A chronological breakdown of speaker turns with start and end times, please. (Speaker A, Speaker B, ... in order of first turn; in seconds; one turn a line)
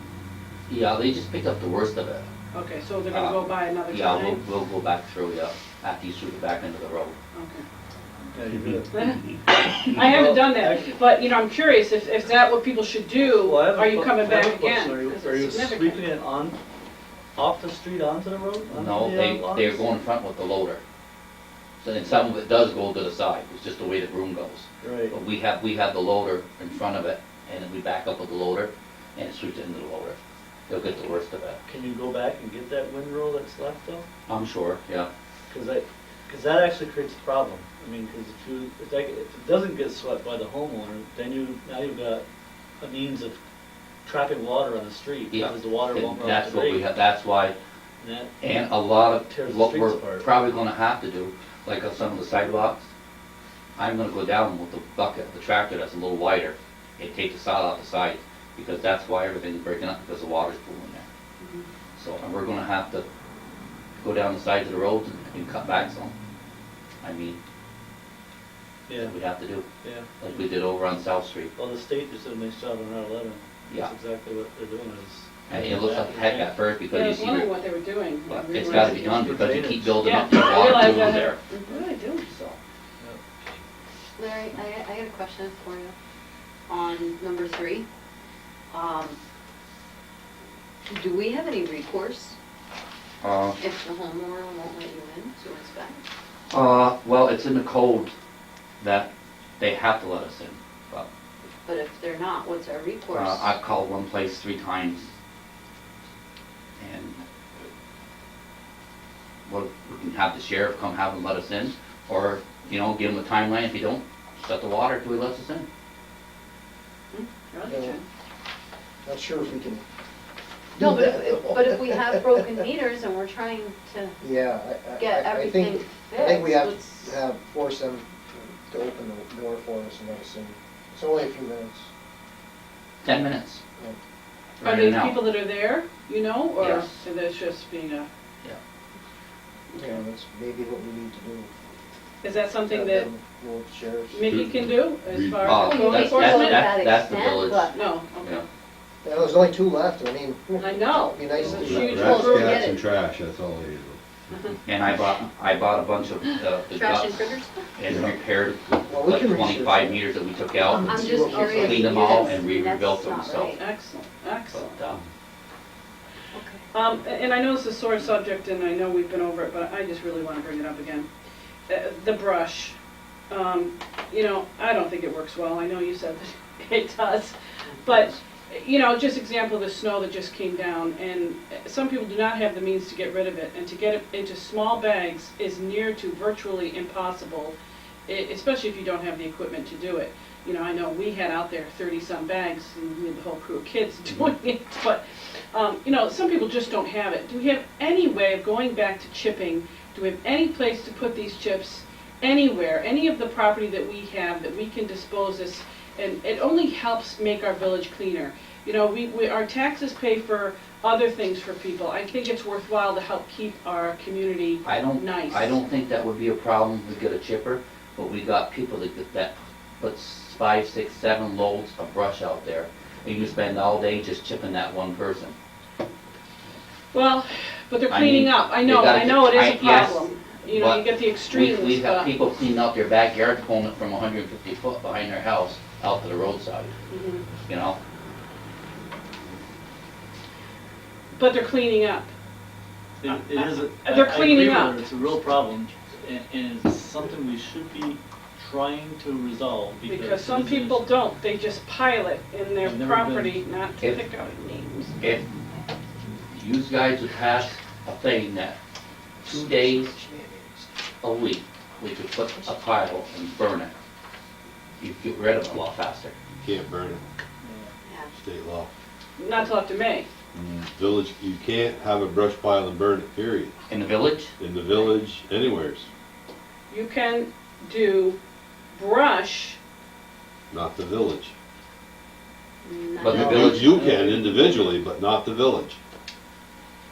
Speaker A: 0.7-2.3
Speaker B: 2.5-4.4
Speaker A: 3.1-7.2
Speaker B: 7.3-7.6
Speaker C: 8.3-9.1
Speaker B: 8.9-16.0
Speaker C: 9.9-11.0
Speaker C: 13.2-16.6
Speaker C: 17.4-19.9
Speaker A: 18.7-20.8
Speaker A: 21.8-30.2
Speaker C: 24.8-25.1
Speaker A: 30.7-31.6
Speaker C: 31.7-34.0
Speaker A: 34.3-35.1
Speaker C: 35.5-42.2
Speaker C: 42.8-43.4
Speaker C: 44.0-46.9
Speaker A: 45.3-47.5
Speaker C: 48.0-48.3
Speaker A: 48.4-52.9
Speaker C: 49.2-50.3
Speaker A: 53.8-61.0
Speaker B: 61.4-61.6
Speaker A: 62.0-63.0
Speaker A: 64.0-66.1
Speaker A: 67.0-67.4
Speaker C: 68.9-69.1
Speaker A: 68.9-69.7
Speaker C: 69.8-70.5
Speaker A: 70.2-71.5
Speaker C: 71.5-76.5
Speaker A: 75.5-77.5
Speaker B: 76.9-79.2
Speaker A: 78.3-81.4
Speaker C: 78.6-80.2
Speaker B: 80.0-82.3
Speaker A: 82.2-82.6
Speaker D: 84.2-85.9
Speaker D: 86.7-87.8
Speaker D: 88.7-89.2
Speaker D: 90.9-92.3
Speaker A: 93.2-93.6
Speaker D: 93.6-96.0
Speaker A: 96.5-98.1
Speaker A: 98.8-99.1
Speaker A: 99.6-101.1
Speaker D: 101.6-103.5
Speaker A: 103.1-105.1
Speaker A: 106.8-107.2
Speaker A: 109.5-115.7
Speaker B: 117.1-118.0
Speaker E: 117.7-118.0
Speaker E: 119.0-119.8
Speaker E: 120.8-122.5
Speaker D: 120.8-124.2
Speaker E: 124.2-131.9
Speaker D: 125.0-127.2
Speaker A: 133.0-133.6
Speaker A: 134.6-135.2
Speaker B: 134.6-138.1
Speaker A: 136.6-137.0
Speaker B: 139.7-140.0
Speaker E: 139.7-141.5
Speaker B: 142.2-143.1
Speaker E: 142.7-144.3
Speaker B: 144.1-146.7
Speaker F: 144.3-145.6
Speaker A: 145.4-148.4
Speaker D: 145.5-147.7
Speaker B: 147.7-148.4
Speaker E: 149.0-152.2
Speaker B: 150.6-152.7
Speaker F: 151.5-154.0
Speaker D: 151.9-152.8
Speaker A: 154.7-160.9
Speaker D: 156.7-157.7
Speaker E: 158.9-160.0
Speaker E: 160.7-162.3
Speaker D: 160.8-163.6
Speaker B: 160.9-161.3
Speaker A: 161.5-163.6
Speaker B: 163.5-164.8
Speaker A: 164.5-165.0
Speaker D: 166.3-166.6
Speaker B: 166.7-171.1
Speaker B: 171.7-172.8
Speaker B: 173.3-187.5
Speaker B: 188.1-215.6
Speaker A: 214.6-225.3
Speaker B: 226.9-232.1
Speaker A: 227.9-236.7
Speaker B: 236.9-237.2
Speaker A: 237.5-237.8
Speaker B: 241.1-242.1
Speaker C: 243.0-251.0
Speaker B: 243.2-244.8
Speaker B: 249.9-254.9
Speaker C: 252.6-253.4
Speaker A: 255.0-255.2
Speaker A: 256.3-258.6
Speaker E: 259.2-260.7
Speaker A: 259.2-259.9
Speaker A: 261.0-263.7
Speaker A: 264.8-266.1
Speaker F: 266.4-267.0
Speaker C: 267.4-267.7
Speaker F: 268.2-268.7
Speaker B: 269.2-270.1
Speaker F: 270.3-273.6
Speaker A: 273.7-274.3
Speaker F: 274.4-275.9
Speaker B: 276.7-278.2
Speaker B: 278.7-279.6
Speaker F: 280.5-281.3
Speaker D: 282.6-283.6
Speaker A: 283.0-283.7
Speaker F: 283.1-285.8
Speaker C: 283.1-284.6